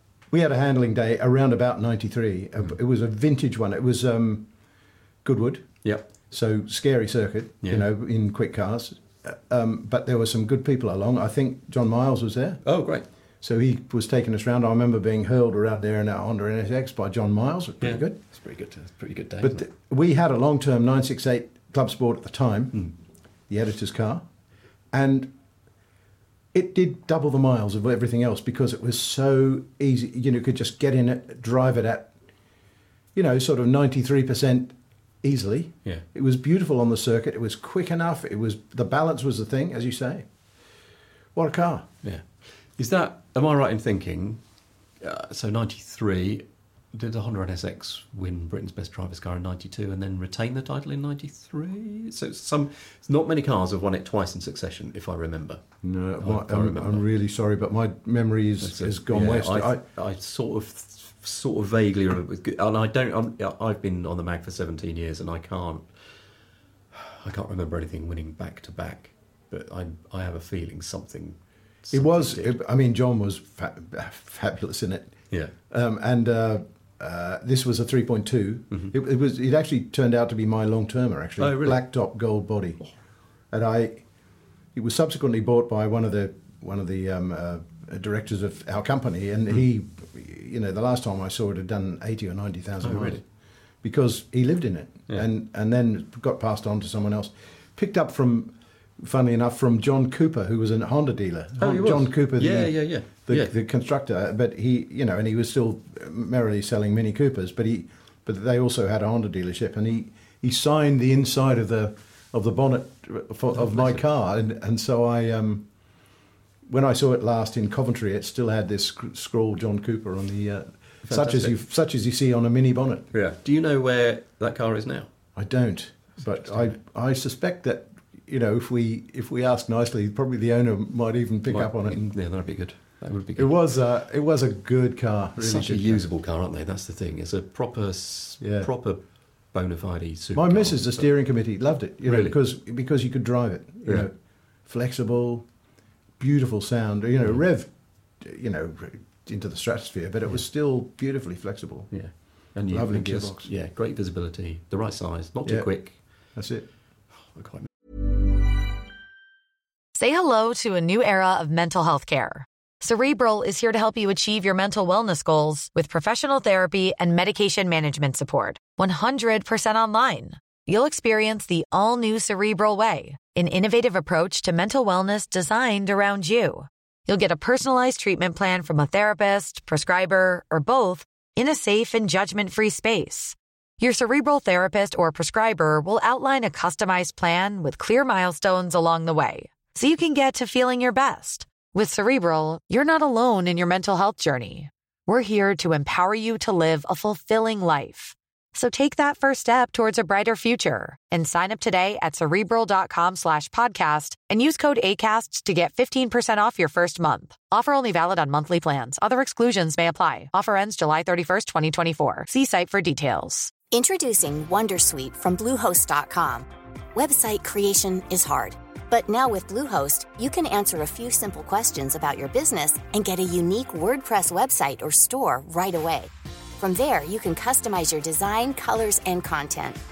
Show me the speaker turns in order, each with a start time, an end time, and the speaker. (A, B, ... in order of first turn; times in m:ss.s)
0:00.3-0:04.5 A
0:05.2-0:12.6 A
0:12.6-0:13.1 B
0:13.4-0:18.2 A
0:17.8-0:19.7 B
0:19.4-0:22.9 A
0:23.5-0:24.3 A
0:24.9-0:25.3 A
0:26.5-0:32.1 A
0:33.2-0:40.3 A
0:41.4-0:41.9 A
0:42.0-0:44.4 B
0:45.0-0:55.6 B
0:55.8-0:59.8 A
0:56.2-0:57.0 B
0:58.6-1:05.9 B
1:06.9-1:12.6 B
1:11.9-1:22.8 A
1:21.4-1:21.8 B
1:23.5-1:24.1 A
1:24.7-1:33.2 A
1:32.8-1:33.2 B
1:33.8-1:55.7 A
1:41.6-1:43.5 B
1:53.5-1:54.0 B
1:56.7-2:03.1 A
2:01.0-2:01.6 B
2:03.1-2:05.1 B
2:05.4-2:12.2 A
2:06.2-2:06.8 B
2:11.5-2:13.5 B
2:13.4-2:16.1 A
2:15.4-2:21.1 B
2:18.4-2:18.7 A
2:20.3-2:25.5 A
2:22.0-2:22.4 B
2:26.2-2:32.2 A
2:31.9-2:36.0 B
2:32.7-2:33.5 A
2:35.4-2:36.7 A
2:37.3-2:37.7 B
2:40.0-3:33.5 C
3:33.7-3:49.8 D